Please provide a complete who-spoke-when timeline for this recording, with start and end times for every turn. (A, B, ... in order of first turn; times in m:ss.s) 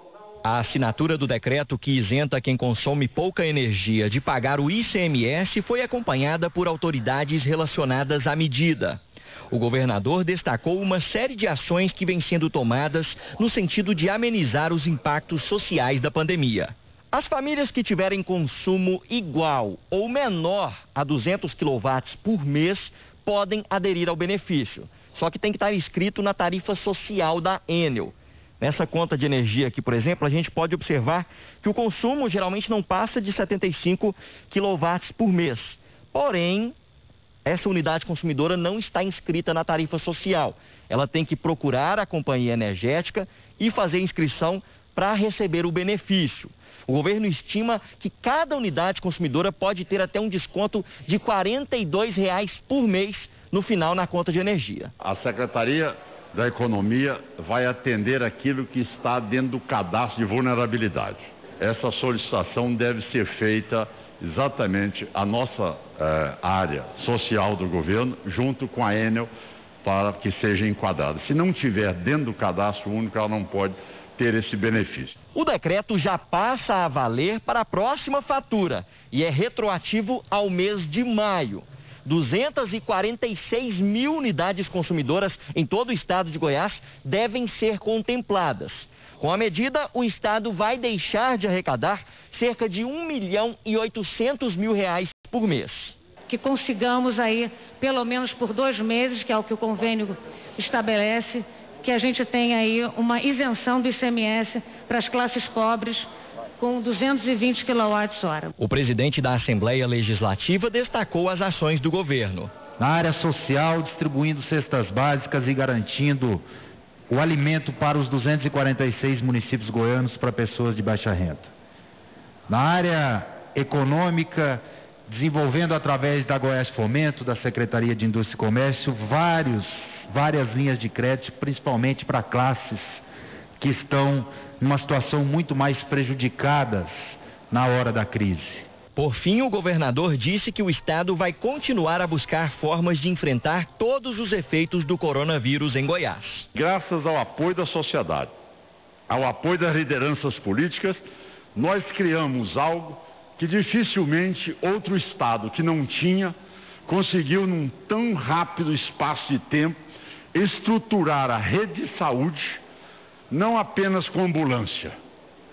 0:00.4-0:36.7 A
0:37.4-0:54.9 A
0:55.0-1:09.3 B
1:09.8-1:15.2 B
1:15.3-1:36.0 A
1:36.3-1:46.1 C
1:46.6-1:48.5 C
1:48.6-1:52.5 A
1:52.8-1:56.4 D
1:57.1-2:01.5 D
2:02.5-2:13.0 D
2:13.6-2:18.7 D
2:19.0-2:26.4 A
2:26.5-2:28.3 B
2:29.1-2:31.0 B
2:31.5-2:36.3 B
2:36.8-2:39.8 B
2:40.3-2:42.6 B
2:43.3-2:44.9 B